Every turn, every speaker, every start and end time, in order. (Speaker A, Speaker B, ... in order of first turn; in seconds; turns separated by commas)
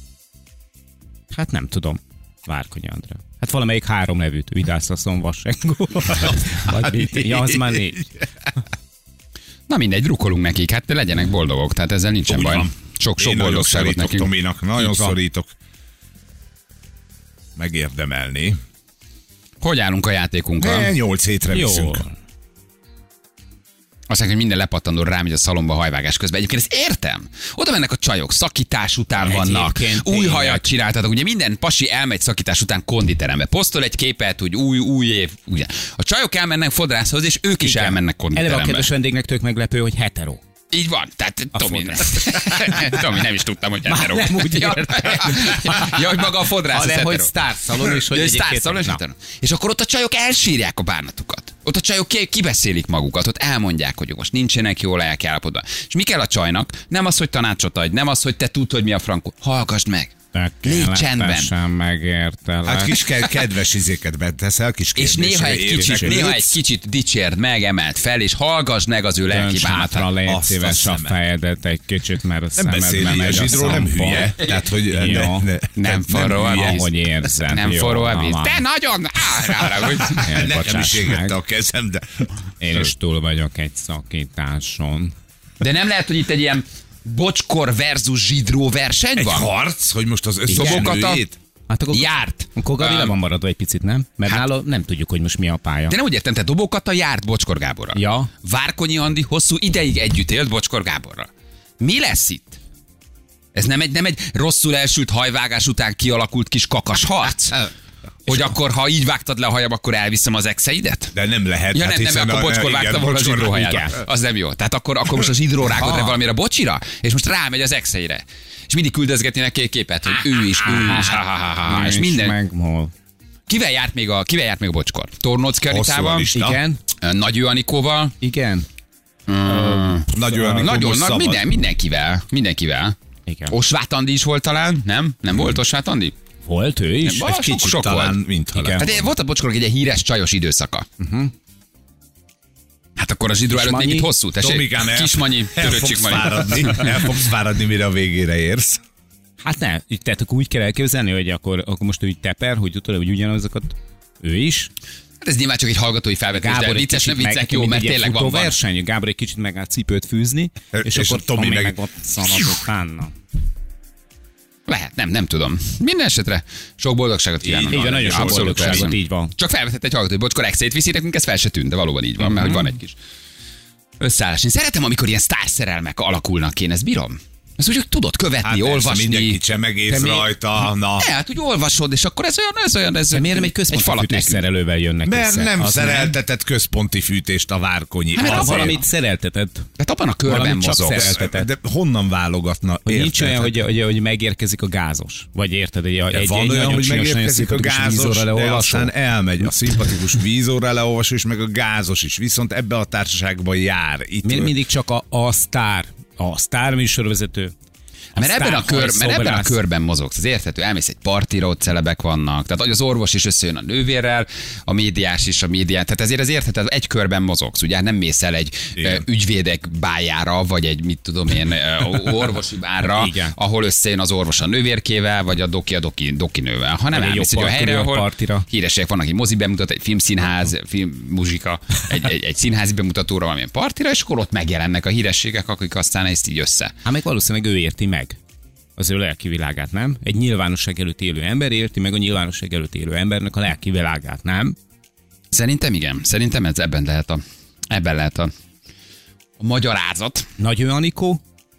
Speaker A: 1.3-8.1, Speaker B: 6.7-8.2, Speaker C: 9.7-14.3, Speaker B: 12.3-15.5, Speaker B: 17.6-18.6, Speaker C: 19.6-20.9, Speaker B: 20.6-22.1, Speaker A: 21.5-22.1, Speaker C: 24.1-38.9, Speaker A: 29.2-30.7, Speaker A: 37.6-40.4, Speaker C: 40.7-61.5, Speaker A: 41.5-42.8, Speaker A: 43.9-46.0, Speaker A: 46.7-49.0, Speaker A: 60.3-63.0, Speaker B: 62.6-66.6, Speaker C: 65.0-70.1, Speaker A: 65.8-66.2, Speaker A: 69.3-75.5, Speaker B: 70.2-71.2, Speaker B: 72.6-76.8, Speaker C: 73.4-73.8, Speaker C: 75.8-80.4, Speaker A: 76.5-78.6, Speaker A: 80.2-81.4, Speaker B: 80.2-82.3, Speaker A: 82.6-85.1, Speaker C: 85.6-89.5, Speaker B: 89.2-91.4, Speaker A: 90.5-91.0, Speaker C: 90.5-91.2, Speaker A: 91.7-96.0, Speaker C: 91.9-93.2, Speaker C: 95.9-102.6, Speaker A: 98.0-98.3, Speaker C: 103.5-107.7, Speaker C: 108.3-111.1, Speaker B: 111.1-113.8, Speaker C: 111.7-122.3, Speaker A: 113.5-114.0, Speaker A: 115.8-116.1, Speaker A: 120.6-122.9, Speaker C: 123.5-126.3, Speaker B: 125.7-126.6, Speaker A: 126.3-126.8, Speaker C: 127.0-128.1, Speaker A: 128.2-128.7, Speaker C: 129.3-133.0, Speaker A: 129.5-130.6, Speaker B: 130.1-131.5, Speaker A: 133.3-133.6, Speaker C: 133.5-136.2, Speaker A: 136.5-137.4, Speaker C: 137.0-138.2, Speaker B: 137.3-139.1, Speaker A: 138.6-138.9, Speaker C: 138.8-140.9, Speaker A: 141.0-141.3, Speaker C: 143.0-147.1, Speaker A: 143.5-144.1, Speaker B: 144.4-148.8, Speaker A: 149.4-154.7, Speaker C: 155.2-158.6, Speaker A: 156.4-163.1, Speaker B: 160.7-161.8, Speaker C: 164.7-172.9, Speaker B: 167.4-168.9, Speaker A: 167.7-169.3, Speaker C: 174.0-179.4, Speaker B: 178.4-181.1, Speaker A: 179.9-180.3, Speaker C: 181.0-184.4, Speaker A: 183.1-186.1, Speaker B: 185.1-188.8, Speaker C: 188.2-188.8, Speaker A: 188.2-189.7, Speaker C: 189.8-191.1, Speaker A: 190.3-191.5, Speaker B: 190.9-193.6, Speaker A: 192.9-198.9, Speaker B: 196.1-204.5, Speaker A: 204.2-207.5, Speaker A: 208.2-209.6, Speaker C: 208.2-236.7, Speaker B: 218.8-219.0, Speaker A: 222.8-223.3, Speaker A: 226.9-228.5, Speaker A: 236.8-238.2, Speaker A: 238.8-244.6, Speaker C: 245.3-248.3, Speaker C: 249.4-250.3, Speaker A: 250.4-251.2